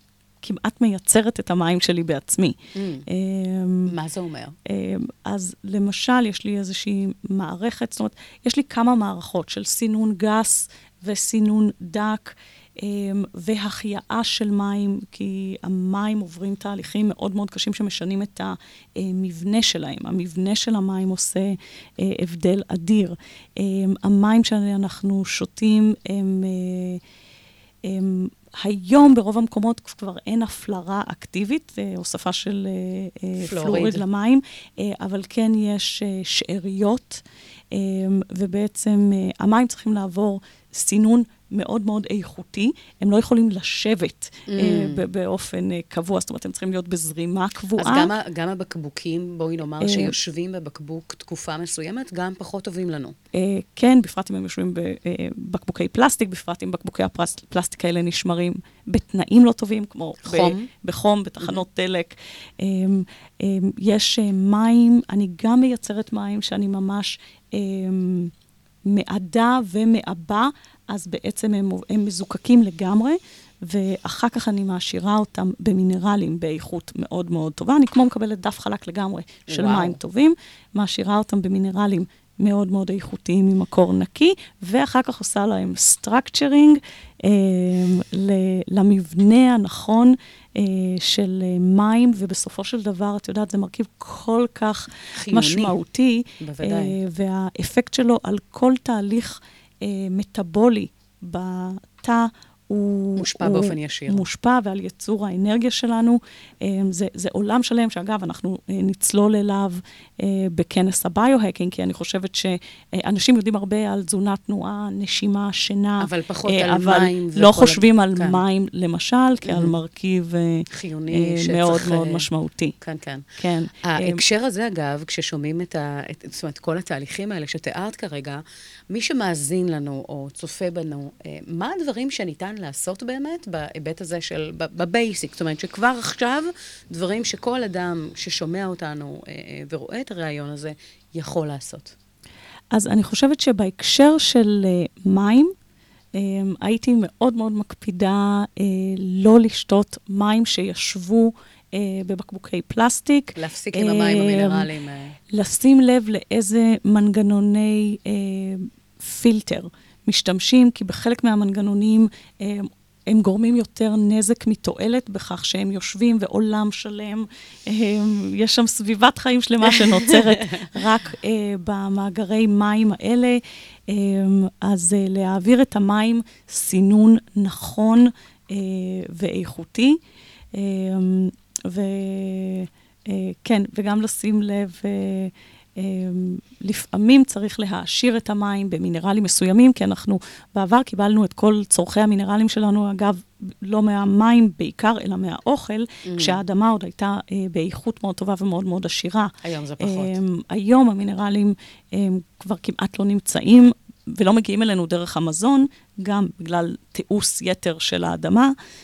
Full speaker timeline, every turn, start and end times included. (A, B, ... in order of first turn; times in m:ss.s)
0:00.4-0:02.6 A
0:02.8-0:03.1 B
0:03.1-0:03.9 A
0:03.9-0:04.6 B
0:04.7-0:27.0 A
0:27.8-0:48.1 A
0:33.4-0:34.0 B
0:44.5-0:45.0 B
0:47.8-0:53.2 B
0:49.8-0:50.2 A
0:53.3-1:08.3 A
1:00.2-1:00.7 B
1:08.9-2:02.8 A
1:19.5-1:20.0 B
1:35.2-1:35.8 B
1:36.4-1:37.0 B
1:43.2-1:44.2 B
1:56.0-1:58.4 B
1:59.5-1:59.7 B
2:00.7-2:02.3 B
2:02.8-2:03.2 B
2:03.4-2:04.2 A
2:03.8-2:21.9 B
2:22.7-2:25.5 A
2:26.2-2:34.6 A
2:33.4-2:35.2 B
2:35.3-3:00.0 A
2:50.1-2:50.6 B
3:00.5-3:28.6 A
3:16.1-3:16.4 B
3:19.4-3:20.2 B